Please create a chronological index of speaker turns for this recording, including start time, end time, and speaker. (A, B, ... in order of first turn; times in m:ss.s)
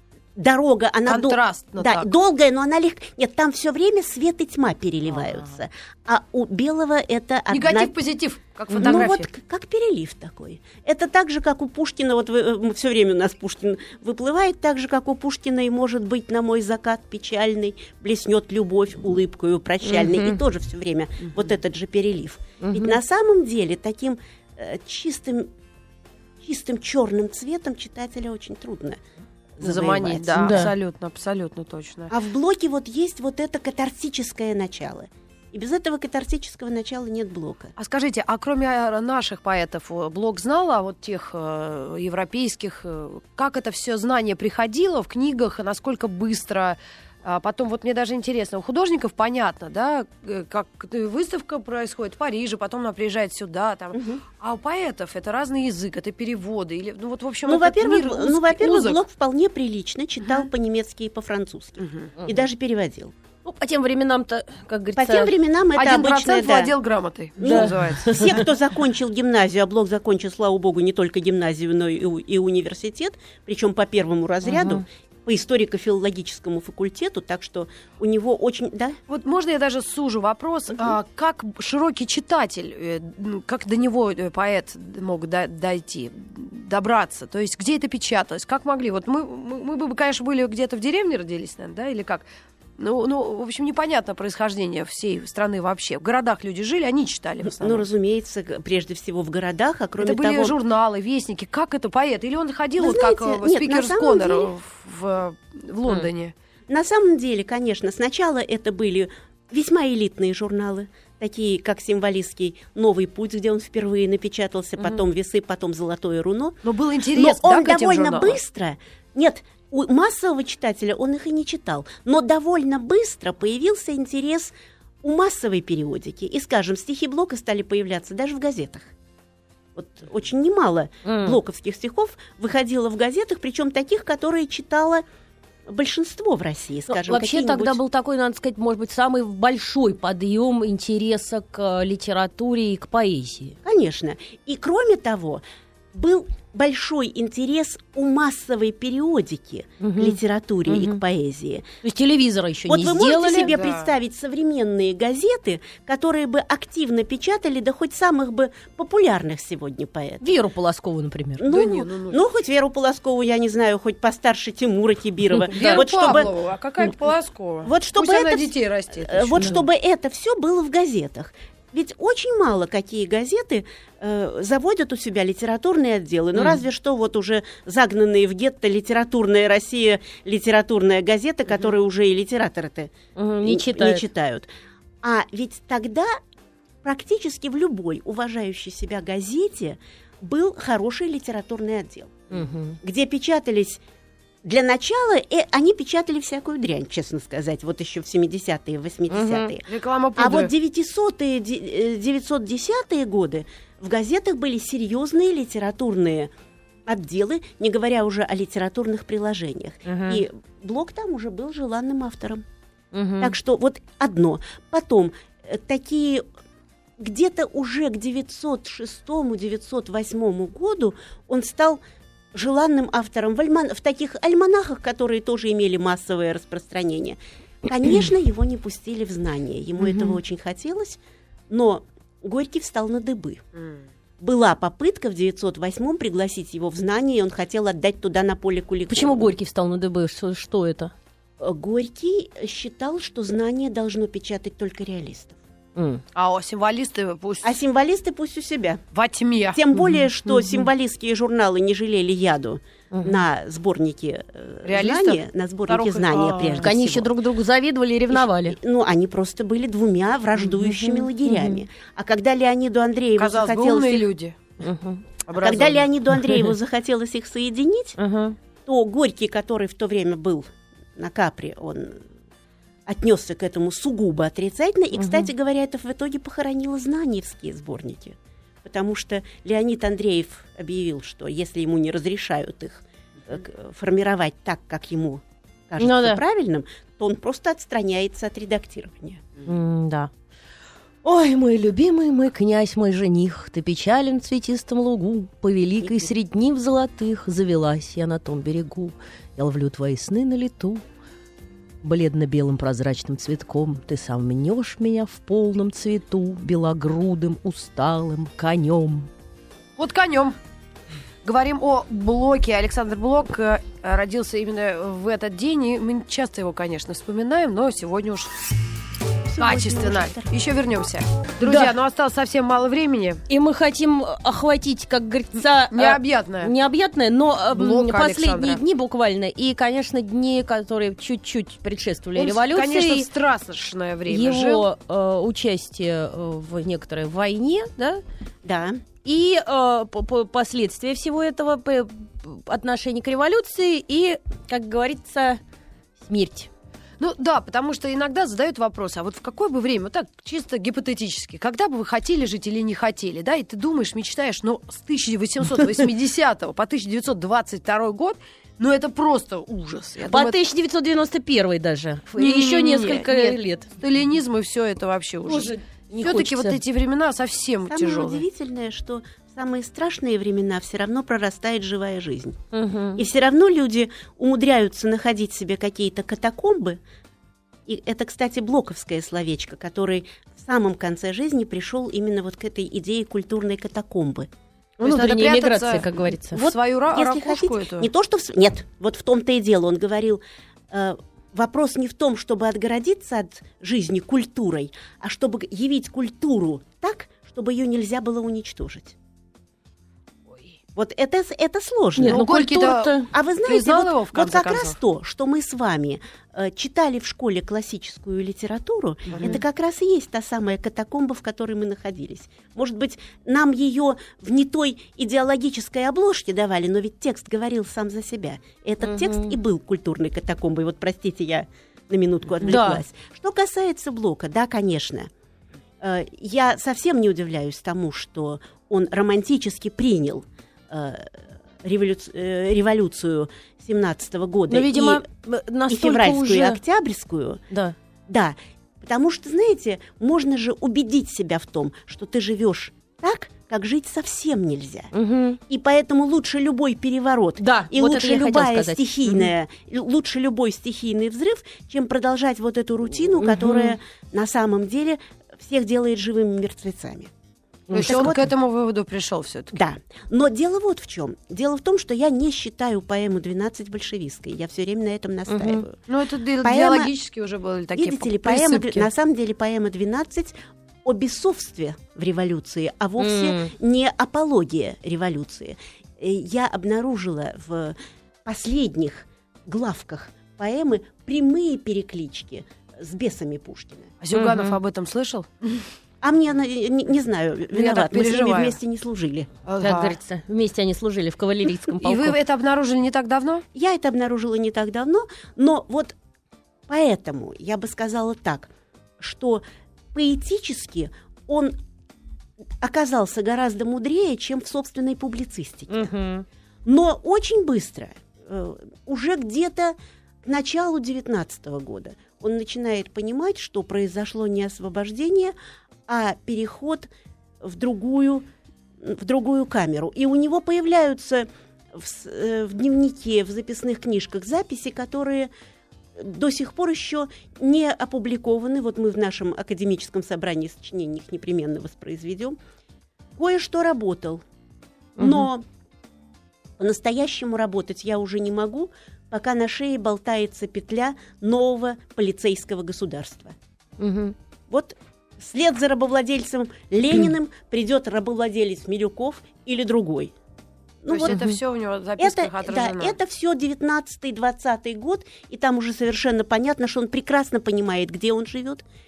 0:00.4-0:08.0 A
0:01.1-0:02.1 B
0:07.5-0:09.3 B
0:08.7-0:25.5 A
0:08.8-0:09.0 C
0:19.8-0:20.4 C
0:22.6-0:23.0 C
0:26.4-0:29.0 A
0:29.6-0:30.7 A
0:29.6-0:32.1 B
0:30.4-0:30.7 C
0:32.1-0:37.7 A
0:37.8-0:59.0 B
0:53.9-0:54.2 A
0:57.4-1:03.1 A
1:01.8-1:02.1 B
1:03.4-1:05.3 C
1:05.0-1:06.7 A
1:05.8-1:08.1 B
1:07.4-1:19.0 A
1:07.4-1:08.5 C
1:14.4-1:14.8 C
1:19.1-1:32.2 B
1:32.8-1:37.9 B
1:37.4-1:40.6 A
1:40.0-1:46.3 B
1:42.8-1:44.5 A
1:46.7-1:56.6 A
1:56.6-1:58.4 B
1:57.1-2:08.9 A
2:09.8-2:15.0 A
2:11.0-2:11.4 C
2:15.7-2:17.8 A
2:16.9-2:23.6 C
2:23.6-2:31.7 A
2:29.8-2:31.0 C
2:31.8-2:33.5 C
2:32.7-2:40.3 A
2:33.4-2:33.9 B
2:40.2-2:41.5 C
2:41.4-2:46.3 A
2:41.5-2:42.2 B
2:45.4-2:46.2 C
2:45.5-2:49.6 B
2:47.6-3:04.5 A
2:56.4-2:56.6 C
3:03.2-3:04.0 C
3:05.0-3:06.1 A
3:06.8-3:13.8 A
3:12.3-3:12.8 C
3:14.4-3:26.3 A
3:19.1-3:19.5 C
3:19.7-3:20.5 B
3:26.9-3:32.4 A
3:29.9-3:30.2 C
3:32.9-3:33.3 C
3:33.2-3:36.2 A
3:37.0-3:41.8 A
3:42.3-3:53.4 A
3:49.8-3:50.2 C
3:53.6-3:53.8 B
3:54.2-3:59.3 A
3:58.9-4:00.9 C
4:01.4-4:05.4 A
4:05.8-4:06.0 C
4:06.1-4:07.6 B
4:07.4-4:08.8 A
4:08.9-4:09.6 B
4:09.5-4:17.1 A
4:09.7-4:10.7 C
4:12.9-4:13.2 C
4:14.6-4:16.7 B
4:16.6-4:18.6 C
4:18.1-4:24.1 A
4:20.4-4:21.6 C
4:23.2-4:24.4 B
4:24.6-4:25.1 C
4:25.3-4:25.9 B
4:25.4-4:28.0 A
4:28.0-4:28.4 C
4:28.6-4:32.0 A
4:32.9-4:49.4 A
4:34.9-4:35.3 C
4:45.8-4:46.2 C
4:49.4-4:50.1 C
4:51.0-5:00.8 C
4:55.8-4:56.1 A
5:01.8-5:09.1 C
5:09.8-5:10.4 B
5:11.2-5:18.3 B
5:19.2-5:20.4 A
5:19.4-5:23.2 B
5:21.4-5:21.7 C
5:23.3-5:33.1 C
5:25.7-5:26.5 B
5:27.5-5:28.6 B
5:32.1-5:34.6 B
5:34.1-5:38.0 C
5:38.4-5:38.8 A
5:39.0-5:45.4 C
5:46.1-5:46.5 C
5:47.0-6:00.4 B
6:00.1-6:03.7 C
6:02.2-6:08.2 B
6:05.2-6:06.6 C
6:07.7-6:12.4 A
6:12.5-6:13.0 C
6:13.0-6:16.8 A
6:17.6-6:24.3 A
6:24.8-6:27.9 B
6:24.8-6:26.5 C
6:26.9-6:38.9 A
6:40.7-6:42.2 A
6:42.0-6:43.1 C
6:42.1-6:44.8 B
6:43.1-7:05.1 A
6:49.1-6:49.4 B
6:58.8-6:59.4 C
7:02.4-7:02.8 C
7:05.8-7:15.0 A
7:14.5-7:16.6 C
7:15.7-7:17.4 A
7:18.1-7:24.9 A
7:24.9-7:25.4 C
7:25.5-7:37.1 A
7:27.4-7:29.3 C
7:33.2-7:33.8 C
7:37.7-7:38.2 C
7:37.7-7:39.6 B
7:37.8-7:38.3 A
7:39.5-7:45.8 A
7:45.3-7:45.6 C
7:45.9-7:48.9 B
7:46.4-7:46.9 A
7:47.8-8:03.9 A
7:53.0-7:53.5 C
8:04.0-8:05.6 B
8:04.1-8:04.6 C
8:06.0-8:09.3 A
8:07.5-8:08.6 B
8:09.5-8:10.0 B
8:09.6-8:12.2 C
8:11.8-8:13.4 B
8:13.5-8:16.0 A
8:16.7-8:19.4 A
8:19.9-8:21.5 A
8:22.6-8:25.9 A
8:25.7-8:26.2 C
8:26.6-8:35.3 A
8:35.9-8:38.3 A
8:38.8-8:45.3 A
8:46.0-8:52.4 A
8:53.2-8:54.2 A
8:55.0-8:55.3 C
8:55.0-8:55.5 A
8:56.6-9:03.4 A
9:03.8-9:04.1 C
9:04.5-9:10.1 A
9:10.8-9:11.3 A
9:10.9-9:13.0 B
9:11.0-9:11.4 C
9:12.0-9:18.6 A